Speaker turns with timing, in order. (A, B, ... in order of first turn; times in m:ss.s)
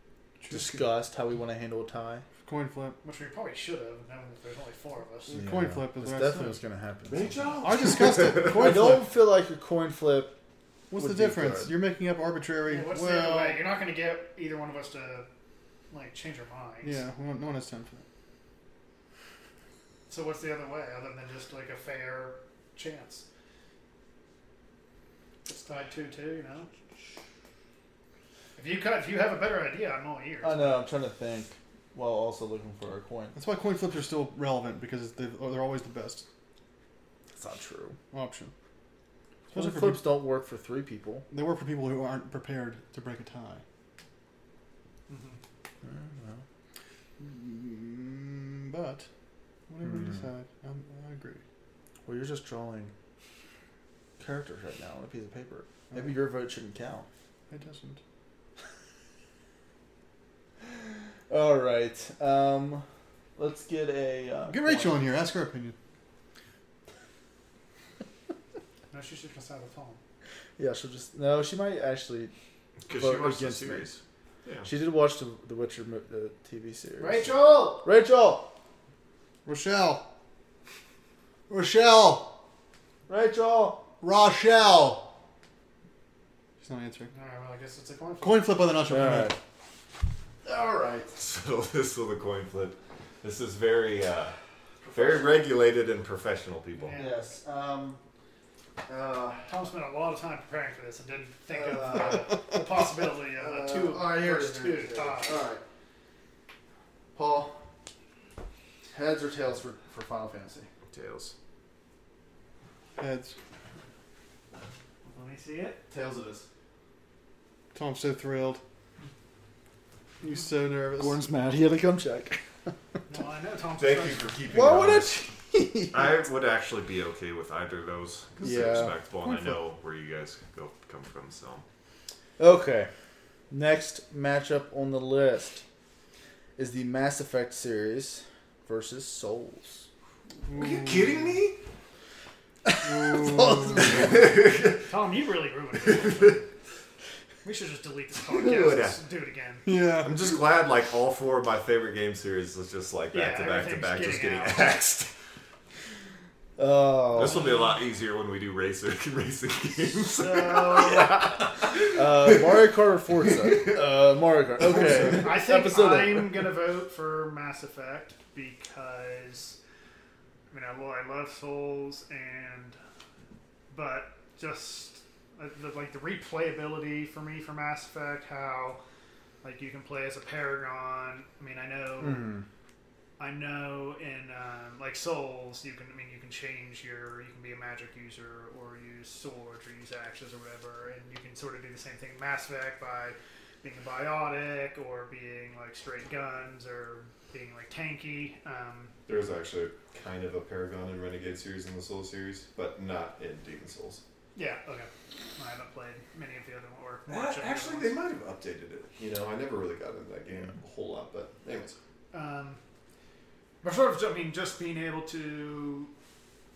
0:00.4-0:00.8 A
0:00.5-0:02.2 B
0:02.4-0:03.0 A
0:03.0-0:05.4 C
0:05.3-0:06.6 A
0:05.3-0:07.5 B
0:07.1-0:08.8 D
0:07.6-0:09.1 A
0:08.4-0:10.3 B
0:10.9-0:13.6 A
0:11.0-0:11.7 B
0:12.6-0:15.3 C
0:15.9-0:17.0 C
0:16.8-0:18.0 A
0:20.1-0:23.2 C
0:25.4-0:26.7 C
0:28.6-0:30.7 C
0:30.4-0:33.4 B
0:33.3-0:36.2 A
0:37.4-0:38.0 B
0:38.1-0:38.5 A
0:39.5-0:41.3 B
0:39.5-0:40.1 A
0:41.3-0:43.6 A
0:45.1-0:45.4 C
0:45.8-0:46.4 B
0:47.2-0:49.1 A
0:49.7-0:51.4 A
0:49.8-0:50.2 B
0:52.0-0:52.9 B
0:54.2-0:57.1 B
0:57.5-0:58.0 A
1:01.3-1:02.8 B
1:03.4-1:05.0 B
1:04.5-1:05.8 A
1:08.9-1:10.0 C
1:10.6-1:12.3 B
1:12.8-1:14.7 D
1:12.9-1:13.9 B
1:14.6-1:18.5 B
1:17.0-1:17.8 C
1:19.4-1:20.1 A
1:21.5-1:22.4 A
1:23.1-1:23.9 B
1:24.0-1:25.1 A
1:26.6-1:27.1 A
1:27.1-1:28.6 C
1:28.2-1:29.4 A
1:28.9-1:29.4 B
1:30.4-1:31.1 B
1:31.1-1:34.4 D
1:34.8-1:35.2 B
1:34.9-1:37.0 D
1:36.8-1:37.2 C
1:36.9-1:38.0 B
1:38.8-1:39.5 B
1:39.5-1:45.4 C
1:41.5-1:42.5 B
1:43.4-1:45.6 B
1:47.1-1:47.6 B
1:48.9-1:50.7 B
1:50.9-1:51.3 D
1:53.0-1:53.4 A
1:55.0-1:55.8 C
1:55.9-1:56.4 B
1:57.7-1:58.6 A
2:00.2-2:01.2 A
2:01.0-2:02.4 B
2:03.1-2:04.4 C
2:03.8-2:05.2 D
2:04.5-2:06.2 B
2:05.9-2:11.6 D
2:08.4-2:08.9 B
2:09.2-2:09.6 A
2:12.4-2:12.9 B
2:13.5-2:15.6 B
2:16.6-2:19.9 B
2:20.4-2:21.2 A
2:20.5-2:21.6 D
2:22.6-2:24.3 B
2:22.8-2:23.9 A
2:23.8-2:24.9 D
2:24.8-2:26.5 C
2:25.8-2:26.4 D
2:27.4-2:29.6 C
2:28.2-2:29.0 D
2:29.6-2:30.3 A
2:30.0-2:35.1 D
2:33.1-2:34.8 C
2:36.6-2:37.4 B
2:37.1-2:42.4 D
2:37.2-2:37.8 C
2:40.0-2:41.2 C
2:41.6-2:46.4 B
2:44.8-2:49.6 C
2:50.5-2:52.8 C
2:53.7-2:58.8 C
2:59.4-3:02.3 C
3:02.0-3:02.4 B
3:03.2-3:18.9 C
3:19.1-3:24.0 D
3:24.3-3:28.0 C
3:27.1-3:31.8 D
3:32.1-3:32.6 C
3:33.6-3:35.9 C